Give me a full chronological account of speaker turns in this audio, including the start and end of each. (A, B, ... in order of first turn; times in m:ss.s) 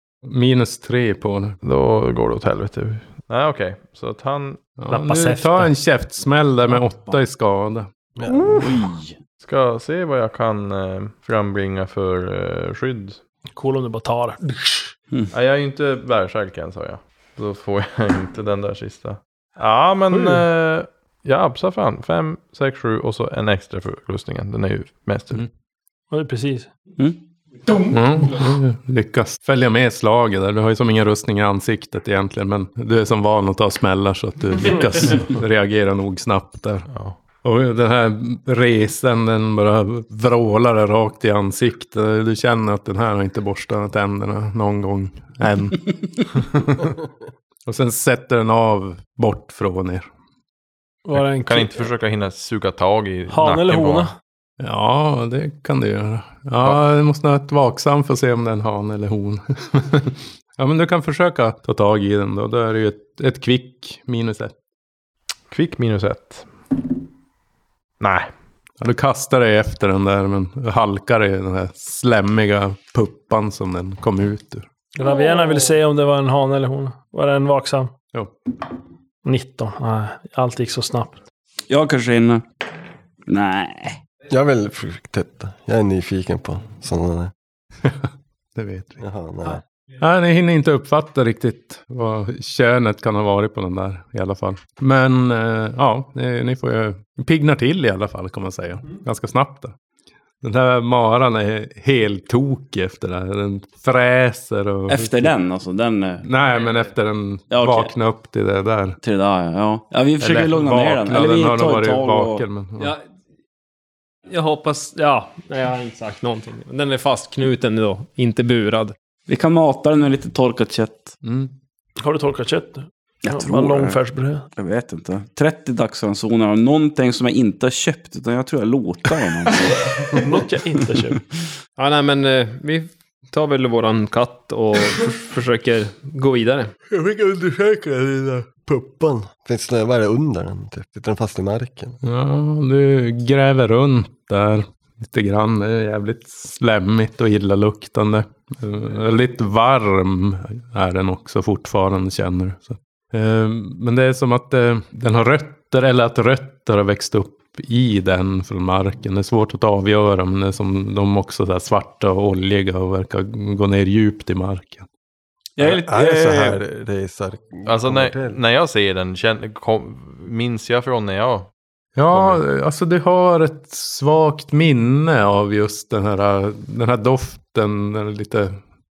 0:00.2-0:01.6 A
0:01.6-0:04.7 B
0:04.8-0:07.9 A
0:04.9-0:05.7 C
0:08.2-0:08.8 D
0:08.4-0:09.2 E
0:09.4-0:13.2 B
0:13.5-0:14.9 C
0:15.3-0:25.5 B
0:20.1-0:20.4 C
0:26.1-0:26.7 C
0:27.7-0:28.4 F
0:27.9-0:36.9 A
0:36.9-0:37.2 B
0:37.4-0:46.4 A
0:47.6-0:50.0 A
0:51.0-0:51.9 C
0:51.4-0:54.1 B
0:53.3-0:54.1 C
0:54.6-1:04.5 A
1:05.5-1:06.5 B
1:08.0-1:08.3 B
1:08.8-1:14.7 A
1:15.0-1:17.9 C
1:19.2-1:21.2 C
1:21.7-1:22.4 E
1:23.3-1:24.0 E
1:24.3-1:27.3 D
1:27.8-1:29.0 A
1:29.0-1:29.6 D
1:30.0-1:39.7 A
1:40.4-1:45.3 A
1:44.9-1:46.2 E
1:46.2-1:49.0 A
1:47.5-1:47.9 E
1:49.0-1:52.4 E
1:50.2-1:52.9 A
1:54.3-1:58.9 F
1:59.3-2:01.1 E
2:01.2-2:01.5 A
2:02.0-2:04.4 C
2:03.2-2:04.0 E
2:04.5-2:10.0 E
2:10.0-2:11.2 C
2:11.8-2:16.7 F
2:16.9-2:22.0 D
2:22.0-2:44.8 A
2:45.6-2:46.6 E
2:45.6-2:48.4 D
2:47.6-2:51.5 B
2:52.0-2:58.6 A
2:52.1-2:52.4 B